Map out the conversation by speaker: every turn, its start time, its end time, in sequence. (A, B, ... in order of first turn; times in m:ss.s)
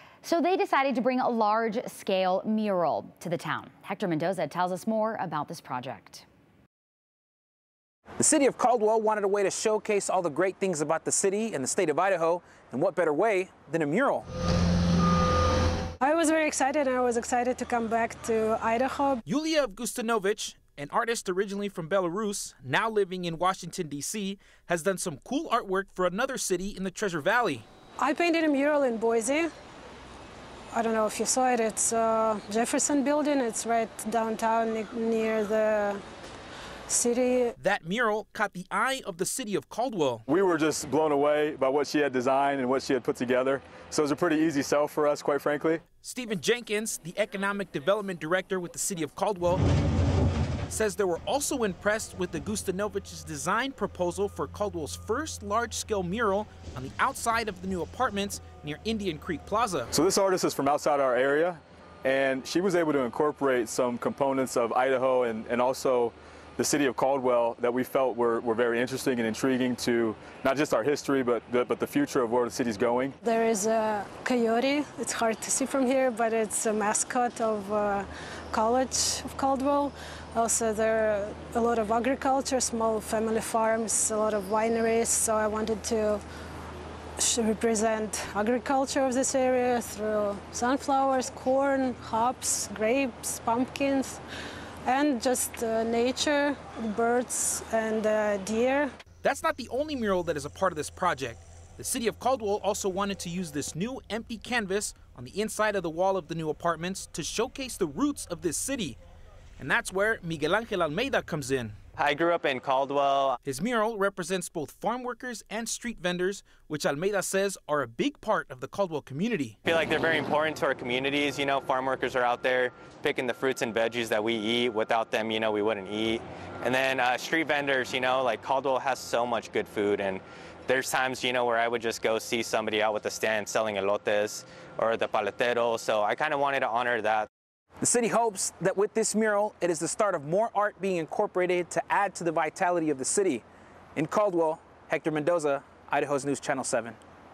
0:00.2-0:06.2 A
0:08.2-0:14.3 B
0:16.0-0:19.2 C
0:19.3-0:27.6 B
0:28.0-0:29.5 C
0:30.7-0:36.0 C
0:36.9-0:37.5 C
0:37.6-0:40.2 B
0:40.3-0:45.8 D
0:46.0-0:49.6 B
0:50.7-0:59.9 B
0:59.9-1:13.2 D
1:13.2-1:26.2 C
1:27.2-1:34.2 C
1:34.8-1:38.9 C
1:39.2-1:49.0 B
1:49.6-1:51.8 B
1:52.0-1:53.4 E
1:53.5-1:59.6 B
1:59.6-2:17.3 E
2:17.8-2:23.4 B
2:24.0-2:27.0 B